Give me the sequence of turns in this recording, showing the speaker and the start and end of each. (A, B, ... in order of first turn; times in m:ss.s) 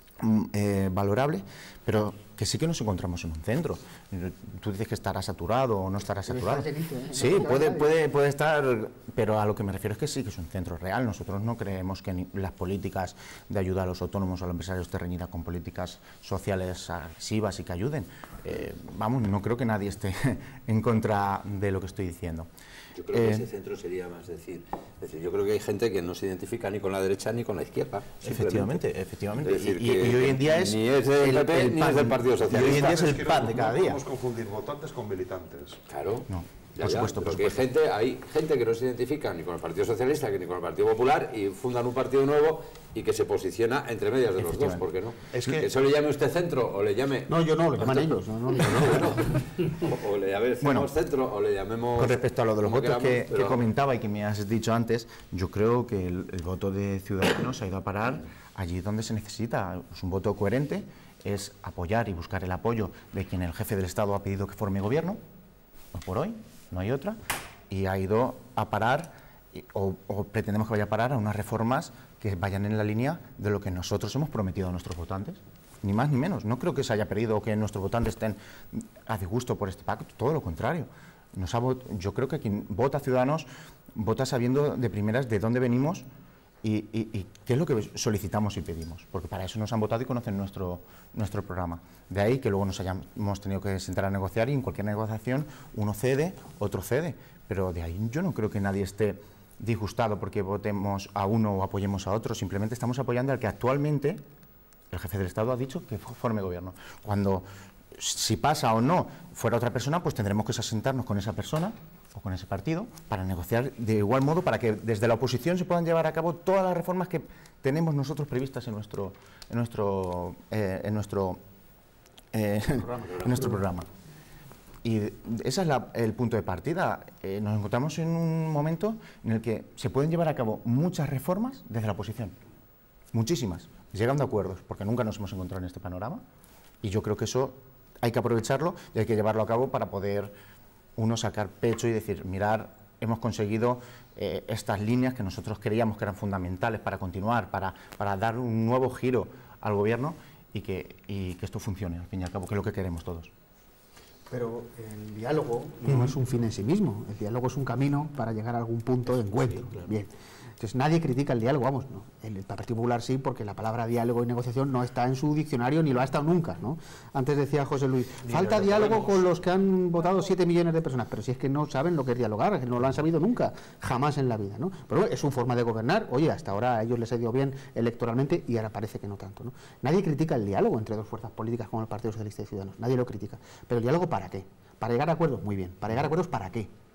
0:00.2-0:22.5 A
0:06.3-0:07.9 B
0:22.9-0:28.8 C
0:23.1-0:23.5 A
0:28.2-0:34.0 A
0:29.4-0:32.9 C
0:32.5-0:35.8 D
0:35.9-0:53.6 C
0:36.3-0:37.6 A
0:44.4-0:44.8 A
0:45.3-0:45.7 D
0:47.3-0:49.2 B
0:50.6-0:50.9 A
0:52.0-1:05.2 A
1:05.9-1:07.2 A
1:07.7-1:26.0 A
1:26.6-1:44.2 A
1:44.9-2:01.4 A
2:02.3-2:03.8 A
2:03.1-2:03.4 C
2:04.8-2:12.3 A
2:13.1-2:16.2 A
2:16.8-2:20.3 A
2:21.0-2:33.3 A
2:34.3-3:06.7 B
2:39.1-2:39.8 A
2:48.2-2:49.2 D